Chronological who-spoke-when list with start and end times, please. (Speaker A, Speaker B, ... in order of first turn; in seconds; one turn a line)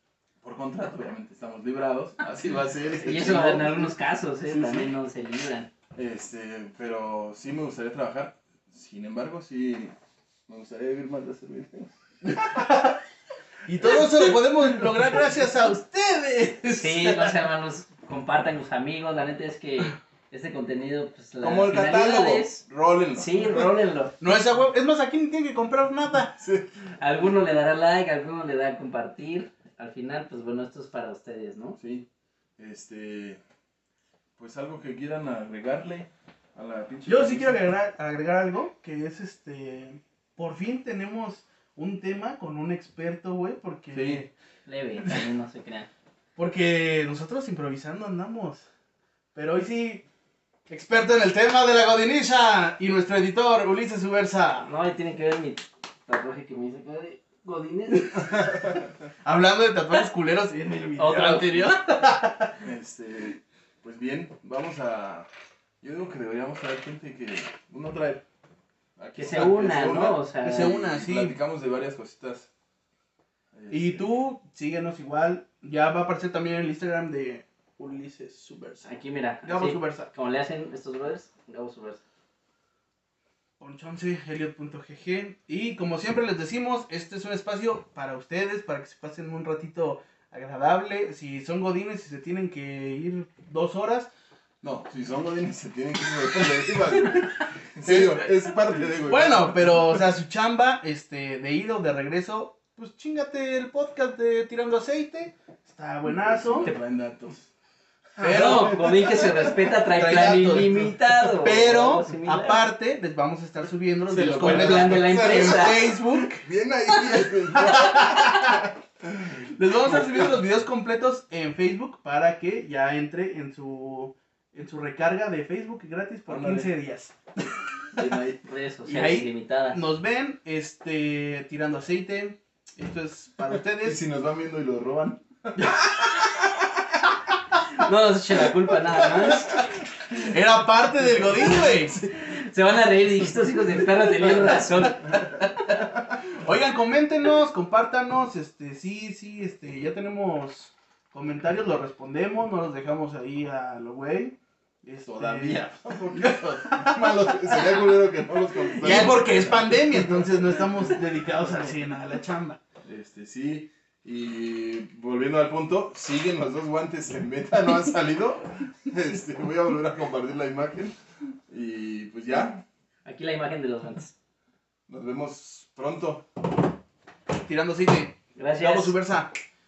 Speaker A: 0.4-3.9
Speaker B: 3.0-5.7
Speaker A: 4.5-4.9
Speaker A: 5.9-9.9
Speaker A: 10.5-12.4
Speaker C: 12.5-13.0
Speaker C: 13.7-17.4
Speaker B: 16.7-22.6
Speaker A: 21.4-23.7
Speaker B: 23.1-24.2
Speaker C: 24.2-26.4
Speaker A: 26.4-26.7
Speaker B: 27.0-31.8
Speaker A: 31.8-32.1
Speaker A: 32.6-33.4
Speaker A: 34.4-37.6
Speaker C: 37.1-44.3
Speaker A: 43.9-44.3
Speaker B: 44.7-45.9
Speaker C: 46.4-48.7
Speaker C: 49.3-50.0
Speaker C: 50.7-54.7
Speaker B: 54.6-58.5
Speaker C: 58.3-58.6
Speaker C: 59.2-62.6
Speaker B: 61.0-61.7
Speaker A: 62.6-65.3
Speaker A: 65.8-68.2
Speaker A: 69.0-72.5
Speaker B: 69.2-70.8
Speaker C: 70.4-71.4
Speaker A: 73.5-74.1
Speaker C: 73.7-78.9
Speaker B: 78.8-82.0
Speaker C: 79.4-80.1
Speaker C: 83.6-94.1
Speaker A: 94.6-100.0
Speaker C: 97.8-98.2
Speaker C: 99.0-106.7
Speaker A: 106.1-107.5
Speaker A: 108.2-109.5
Speaker C: 108.2-116.5
Speaker B: 108.3-112.6
Speaker A: 114.1-120.3
Speaker B: 114.4-115.9
Speaker C: 117.5-118.6
Speaker B: 117.8-118.6
Speaker C: 119.4-127.1
Speaker A: 126.3-126.7
Speaker A: 127.9-128.4
Speaker B: 128.4-129.8
Speaker C: 128.9-134.0
Speaker A: 133.5-137.0
Speaker B: 137.7-139.6
Speaker A: 138.4-140.4
Speaker C: 140.2-142.0
Speaker A: 141.0-142.1
Speaker B: 142.1-145.2
Speaker C: 144.2-145.7
Speaker C: 146.3-157.9
Speaker A: 155.1-161.8
Speaker C: 158.7-162.6
Speaker A: 162.8-171.0
Speaker A: 171.5-172.6
Speaker B: 173.1-174.1
Speaker A: 174.9-176.3
Speaker C: 177.3-179.3
Speaker B: 178.4-179.0